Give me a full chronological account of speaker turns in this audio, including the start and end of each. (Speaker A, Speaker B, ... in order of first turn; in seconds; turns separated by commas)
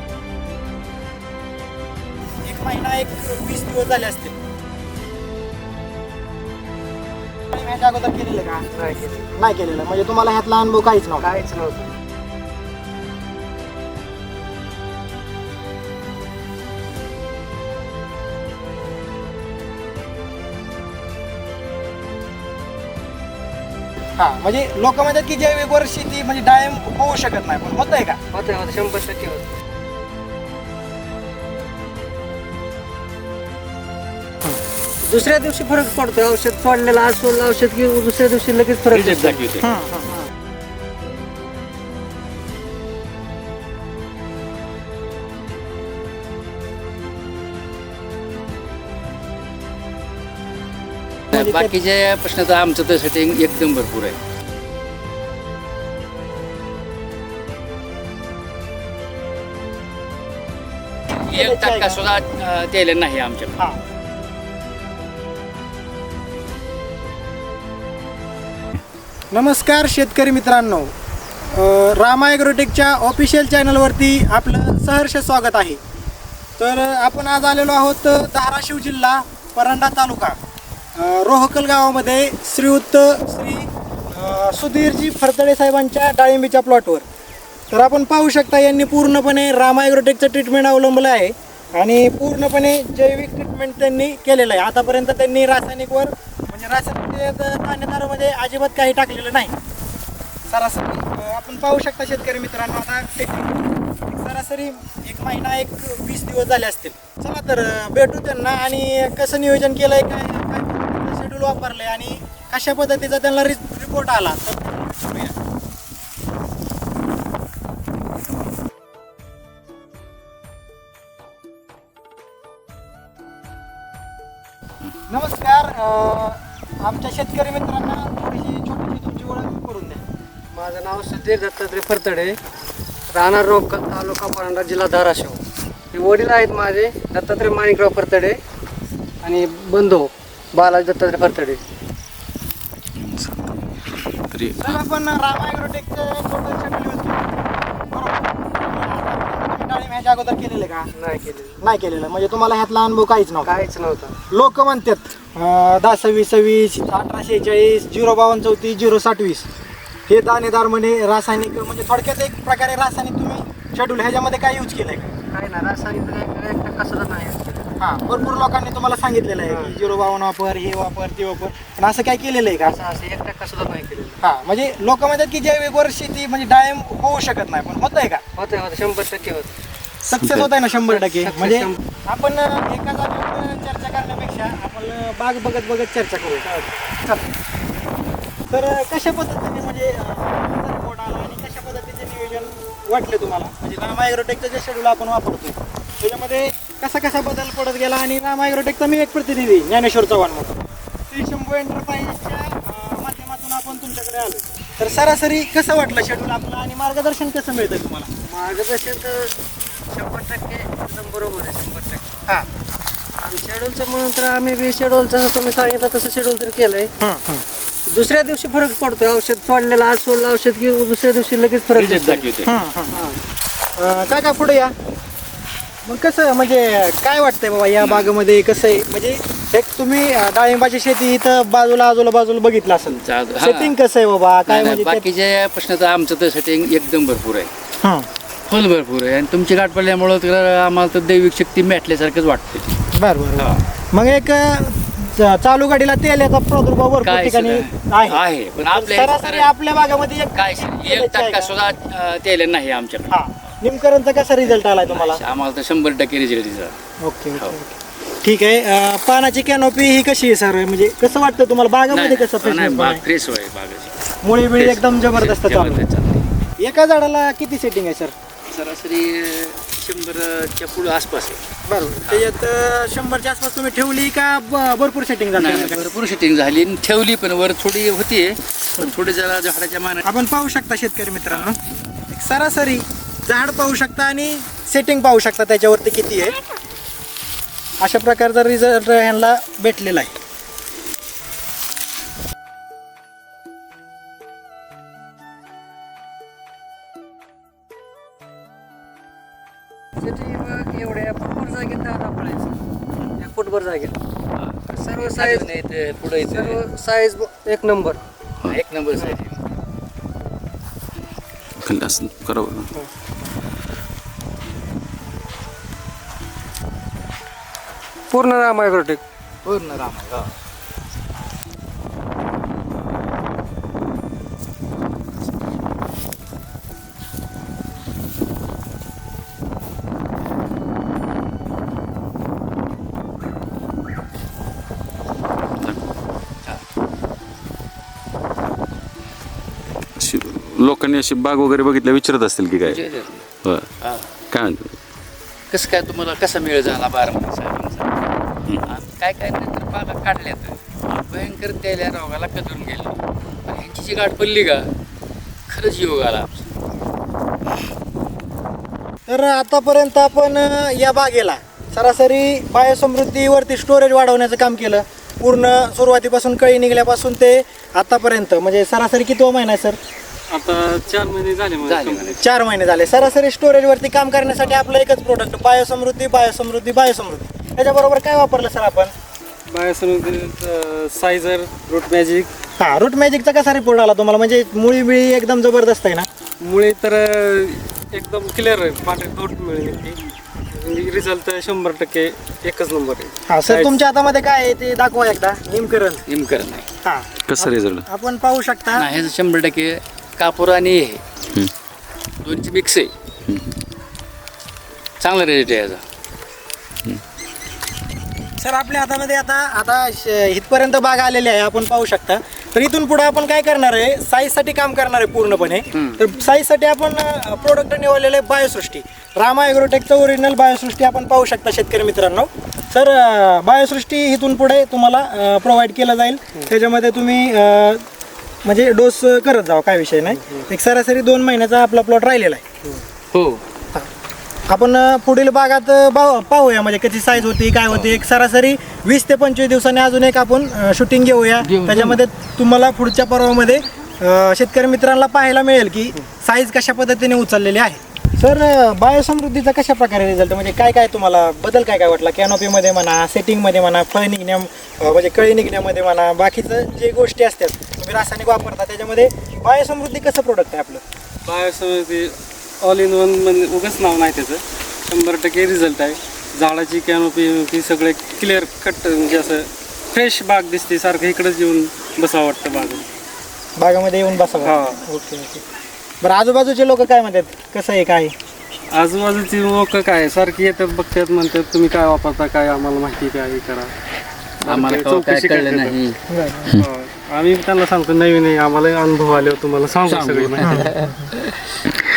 Speaker A: 2.4-4.3, Speaker A: 7.5-8.6, Speaker B: 8.7-9.3, Speaker A: 9.3-11.3, Speaker B: 11.2-11.9, Speaker A: 24.2-28.2, Speaker B: 28.3-29.5, Speaker B: 35.0-39.4, Speaker C: 38.9-39.8, Speaker A: 39.6-40.1, Speaker C: 51.3-54.2, Speaker A: 51.3-51.7, Speaker C: 61.2-63.6, Speaker A: 61.2-62.0, Speaker A: 69.3-70.9, Speaker A: 71.5-75.8, Speaker A: 76.6-80.3, Speaker A: 81.0-87.0, Speaker A: 87.7-99.5, Speaker A: 100.5-115.3, Speaker A: 125.1-130.0, Speaker B: 130.5-132.4, Speaker B: 133.1-135.4, Speaker B: 135.9-138.4, Speaker B: 139.2-141.6, Speaker D: 142.9-144.8, Speaker A: 144.6-147.3, Speaker A: 147.9-150.9, Speaker B: 150.9-151.6, Speaker A: 151.6-153.5, Speaker B: 153.4-154.1, Speaker A: 154.3-159.4, Speaker A: 160.1-165.1, Speaker B: 165.3-167.7, Speaker A: 167.8-172.7, Speaker B: 169.5-169.7, Speaker B: 172.6-174.2, Speaker A: 174.2-178.2, Speaker B: 178.4-179.5, Speaker D: 180.1-180.5, Speaker A: 180.1-187.2, Speaker B: 180.8-181.8, Speaker A: 188.5-200.6, Speaker A: 201.1-208.1, Speaker B: 208.3-209.3, Speaker B: 209.9-212.1, Speaker B: 213.2-216.9, Speaker A: 217.0-217.4, Speaker B: 217.9-222.2, Speaker C: 221.7-222.5, Speaker A: 222.4-222.9, Speaker B: 222.9-223.2, Speaker A: 223.8-224.7, Speaker A: 225.8-235.1, Speaker C: 227.8-228.1, Speaker C: 232.9-233.8, Speaker C: 234.5-237.5, Speaker A: 237.8-238.1, Speaker C: 238.5-242.7, Speaker A: 242.9-251.5, Speaker C: 243.4-243.6, Speaker C: 247.0-249.5, Speaker C: 250.3-253.2, Speaker A: 253.1-255.2, Speaker C: 254.4-256.8, Speaker A: 257.0-263.0, Speaker C: 261.9-263.9, Speaker A: 264.2-265.8, Speaker C: 264.6-266.2, Speaker A: 266.6-268.1, Speaker C: 268.5-271.4, Speaker A: 271.6-275.9, Speaker C: 272.0-272.3, Speaker C: 275.4-280.1, Speaker A: 280.0-281.6, Speaker A: 282.1-286.3, Speaker A: 287.8-290.1, Speaker B: 300.0-302.5, Speaker B: 303.2-303.9, Speaker C: 304.4-306.6, Speaker B: 304.8-305.5, Speaker B: 306.3-308.0, Speaker C: 308.4-309.3, Speaker D: 311.6-312.7, Speaker B: 318.1-319.0, Speaker C: 319.4-320.2, Speaker D: 340.0-342.9, Speaker C: 342.6-343.2, Speaker D: 344.3-344.7, Speaker C: 345.5-347.9, Speaker C: 348.6-352.9, Speaker C: 353.5-354.7, Speaker C: 355.5-356.5, Speaker A: 359.1-369.8, Speaker E: 370.3-372.1, Speaker C: 371.6-372.2, Speaker A: 372.2-378.9, Speaker E: 379.5-382.3, Speaker A: 382.6-386.1, Speaker E: 386.4-390.0, Speaker E: 390.5-393.7, Speaker A: 393.3-396.0, Speaker C: 396.1-396.6, Speaker A: 396.8-398.9, Speaker D: 397.3-397.8, Speaker C: 398.7-401.0, Speaker C: 402.2-402.9, Speaker C: 405.0-405.8, Speaker A: 408.4-427.8, Speaker A: 428.4-432.4, Speaker C: 433.1-433.4, Speaker A: 434.5-460.8, Speaker C: 441.4-442.0, Speaker E: 461.2-472.8, Speaker A: 473.6-475.4, Speaker E: 474.4-474.8, Speaker A: 476.0-478.1, Speaker E: 478.7-483.7, Speaker C: 484.4-486.0, Speaker E: 484.4-485.7, Speaker A: 486.1-486.5, Speaker E: 486.6-490.4, Speaker C: 489.8-491.2, Speaker A: 490.4-491.0